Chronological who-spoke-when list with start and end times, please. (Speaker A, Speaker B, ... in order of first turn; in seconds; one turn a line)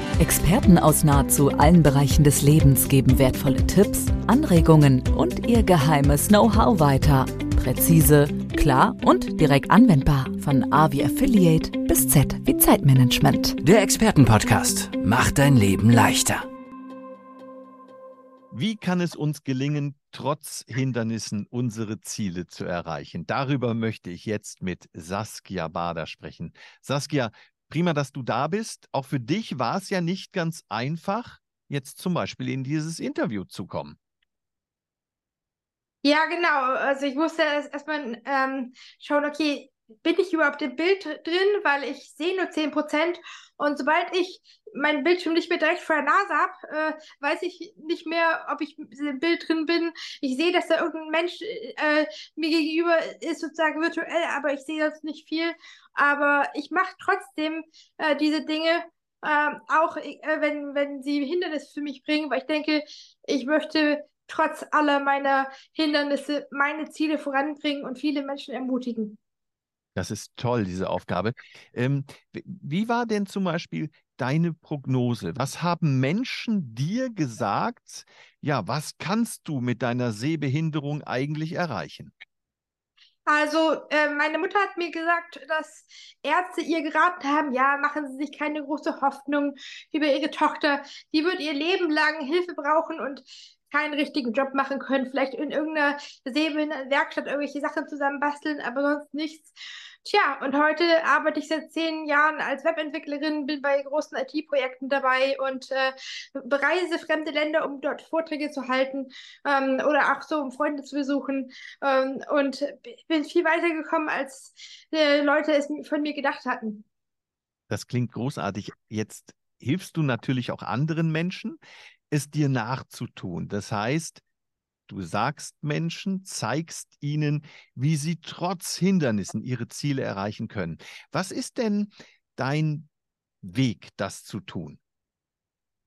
Speaker A: 0.2-13.6
Speaker B: 13.6-16.4
Speaker C: 18.5-34.0
Speaker D: 36.0-69.2
Speaker C: 69.9-82.1
Speaker D: 83.2-116.8
Speaker C: 117.7-121.6
Speaker C: 122.1-124.2
Speaker C: 124.9-132.9
Speaker C: 133.4-134.8